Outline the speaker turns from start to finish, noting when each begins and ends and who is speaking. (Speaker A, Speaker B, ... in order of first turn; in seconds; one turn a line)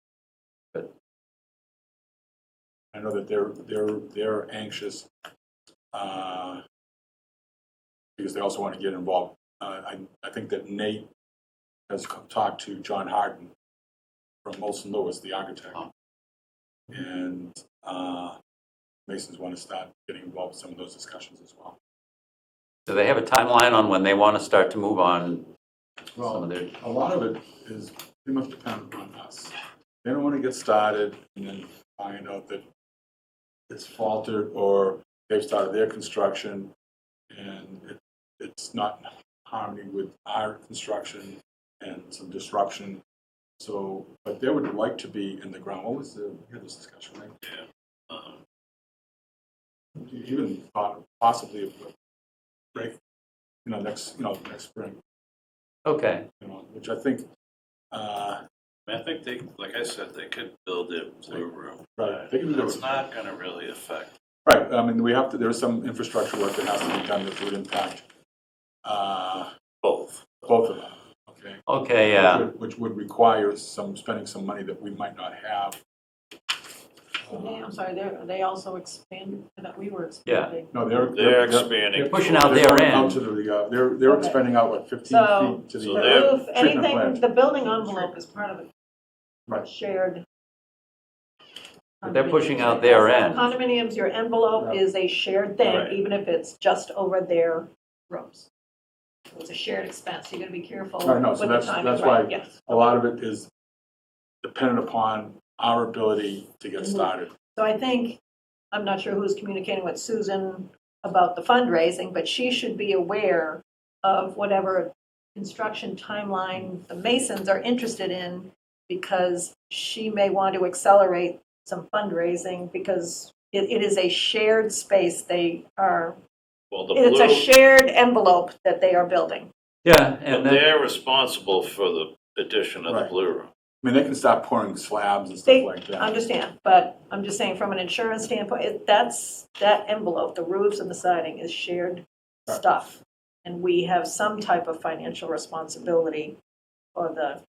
Speaker A: 2.9-5.1
Speaker A: 5.9-6.6
Speaker A: 8.2-11.1
Speaker A: 11.9-13.5
Speaker A: 14.4-15.8
Speaker A: 16.9-18.4
Speaker A: 19.1-21.8
Speaker B: 22.9-25.5
Speaker A: 26.1-32.6
Speaker B: 26.2-26.7
Speaker A: 33.7-36.7
Speaker A: 37.3-43.0
Speaker A: 43.6-47.4
Speaker C: 47.5-48.4
Speaker A: 50.0-51.9
Speaker A: 53.6-55.0
Speaker B: 55.9-56.2
Speaker A: 56.4-57.2
Speaker A: 57.9-58.4
Speaker C: 58.9-64.1
Speaker A: 62.0-62.9
Speaker A: 64.4-68.0
Speaker A: 68.8-69.5
Speaker C: 69.8-70.3
Speaker A: 70.4-75.8
Speaker B: 71.7-72.5
Speaker D: 77.3-80.8
Speaker A: 77.3-77.6
Speaker B: 80.2-80.5
Speaker A: 80.7-87.2
Speaker C: 81.1-82.5
Speaker B: 82.1-83.2
Speaker D: 84.0-84.4
Speaker D: 85.0-88.7
Speaker C: 85.8-86.3
Speaker D: 89.5-90.2
Speaker D: 92.0-98.5
Speaker B: 92.0-93.5
Speaker C: 95.7-95.9
Speaker D: 99.3-102.7
Speaker A: 101.0-103.5
Speaker A: 104.4-107.3
Speaker D: 106.8-108.2
Speaker D: 108.7-126.2
Speaker C: 126.7-127.4
Speaker D: 126.9-129.5
Speaker B: 129.8-130.6
Speaker C: 130.3-133.5
Speaker A: 132.9-133.1
Speaker A: 133.8-136.1
Speaker D: 135.4-146.4
Speaker D: 146.9-147.4